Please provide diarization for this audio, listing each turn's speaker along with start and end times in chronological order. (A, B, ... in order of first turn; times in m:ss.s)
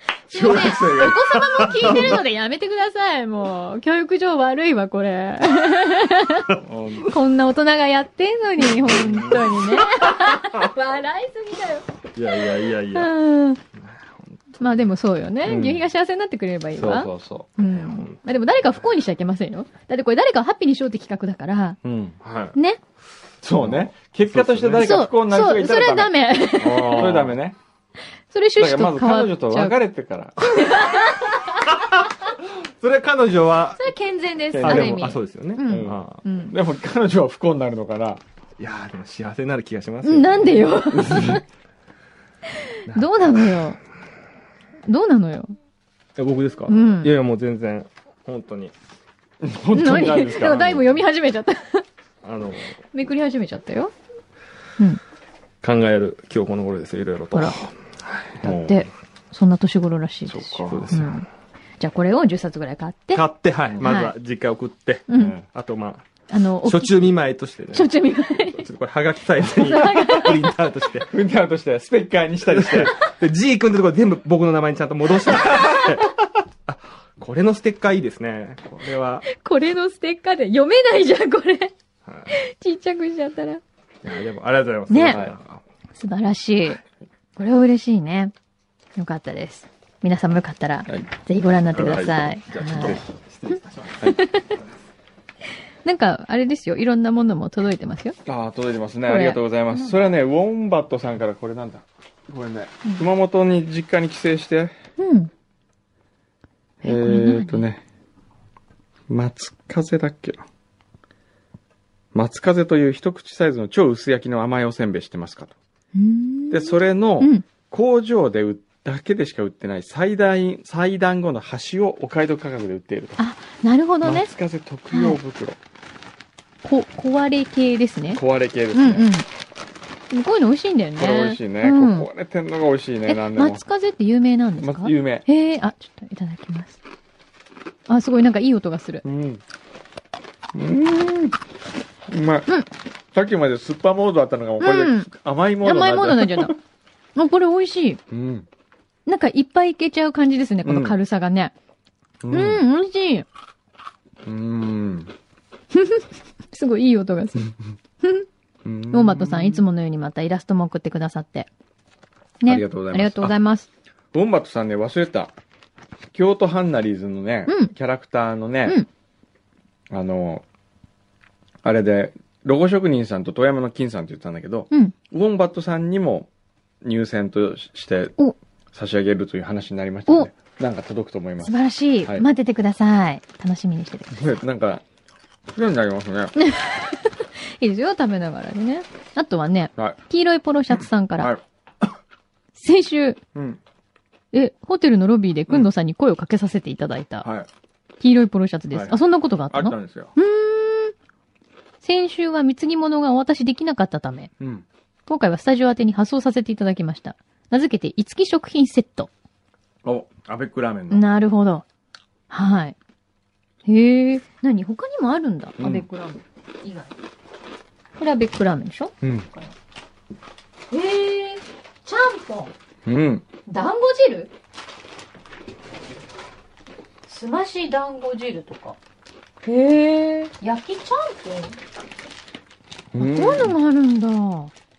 0:00.3-0:02.2 A
0:00.3-0:13.6 B
0:01.6-0:02.1 C
0:06.6-0:07.1 A
0:08.8-0:10.6 C
0:12.1-0:13.1 C
0:13.8-0:14.8 C
0:14.6-0:21.8 B
0:15.4-0:15.8 C
0:16.8-0:17.5 A
0:17.7-0:18.2 C
0:21.8-0:22.2 A
0:22.2-0:22.6 C
0:23.4-0:26.1 A
0:23.6-0:24.9 C
0:24.8-0:27.1 B
0:26.6-0:27.4 C
0:26.9-0:27.6 A
0:28.3-0:29.8 B
0:28.6-0:30.4 A
0:30.4-0:31.7 B
0:32.5-0:33.9 C
0:33.8-0:36.5 B
0:34.5-0:35.1 A
0:34.6-0:36.2 C
0:35.7-0:38.2 A
0:38.6-0:40.9 C
0:40.0-0:41.4 B
0:40.9-0:41.4 A
0:42.9-0:43.8 B
0:42.9-0:43.7 C
0:44.8-0:45.5 B
0:46.2-0:48.7 C
0:46.7-0:47.1 B
0:49.4-0:50.8 A
0:49.7-0:51.8 B
0:52.2-0:52.8 C
0:52.9-0:53.9 B
0:55.6-0:58.4 C
0:57.3-0:57.6 B
0:58.4-0:58.8 A
0:58.4-1:01.3 B
1:00.3-1:01.1 A
1:00.7-1:01.2 C
1:01.8-1:03.2 B
1:03.1-1:06.0 C
1:03.8-1:04.1 B
1:05.1-1:05.4 B
1:05.1-1:05.4 A
1:06.3-1:07.1 B
1:06.6-1:07.9 C
1:07.7-1:08.6 B
1:08.5-1:11.1 C
1:09.4-1:10.5 B
1:11.1-1:12.9 A
1:12.5-1:19.2 C
1:19.2-1:21.7 B
1:22.0-1:22.3 C
1:22.3-1:23.6 B
1:24.0-1:25.6 C
1:24.9-1:25.2 B
1:25.0-1:25.4 A
1:26.0-1:26.8 B
1:27.4-1:28.3 B
1:29.0-1:33.0 B
1:31.7-1:34.6 C
1:31.8-1:32.1 A
1:34.0-1:34.5 B
1:35.8-1:38.2 B
1:38.2-1:44.7 A
1:39.1-1:39.9 B
1:45.0-1:45.3 B
1:46.8-1:47.8 A
1:46.8-1:47.6 B
1:49.1-1:50.4 A
1:52.1-1:55.6 A
1:55.9-1:57.4 B
1:56.5-2:03.2 A
2:03.2-2:04.3 B
2:04.0-2:05.6 A
2:04.9-2:05.2 B
2:06.6-2:08.2 B
2:08.1-2:09.1 A
2:08.7-2:09.2 B
2:10.1-2:12.1 B
2:11.0-2:13.6 A
2:13.1-2:16.8 B
2:14.6-2:15.2 A
2:17.9-2:19.0 B
2:19.0-2:19.4 A
2:20.5-2:21.4 A
2:22.1-2:22.5 A
2:23.1-2:26.5 A
2:24.6-2:25.1 B
2:25.6-2:26.5 B
2:27.1-2:28.0 B
2:28.1-2:28.5 A
2:29.0-2:31.5 B
2:30.6-2:31.0 A
2:32.2-2:32.6 A
2:32.3-2:33.2 B
2:34.2-2:35.1 A
2:35.7-2:38.3 B
2:38.6-2:39.6 A
2:38.9-2:41.5 B
2:42.4-2:43.7 B
2:42.5-2:43.3 A
2:44.1-2:45.3 A
2:46.1-2:48.8 A
2:47.5-2:47.7 B
2:49.9-2:50.4 A
2:51.6-2:56.3 A
2:56.8-2:58.2 A
2:58.7-3:02.2 A
3:01.4-3:04.1 B
3:04.1-3:04.8 A
3:05.5-3:06.3 A
3:06.4-3:11.3 B
3:12.6-3:13.2 B
3:13.3-3:13.6 A
3:14.3-3:17.3 B
3:17.2-3:17.5 A
3:18.0-3:20.9 B
3:18.7-3:19.0 A
3:19.5-3:20.1 A
3:21.8-3:24.3 B
3:24.4-3:24.6 A
3:25.1-3:29.1 B
3:29.8-3:31.0 A
3:30.9-3:31.6 B
3:32.3-3:32.8 B
3:33.6-3:36.9 B
3:35.6-3:35.9 A
3:38.0-3:39.5 B
3:39.0-3:39.3 A
3:40.7-3:42.5 B
3:42.8-3:43.2 A
3:43.5-3:44.3 B
3:47.0-3:48.8 B
3:49.4-3:51.6 B
3:52.9-3:53.5 A
3:53.0-3:54.5 B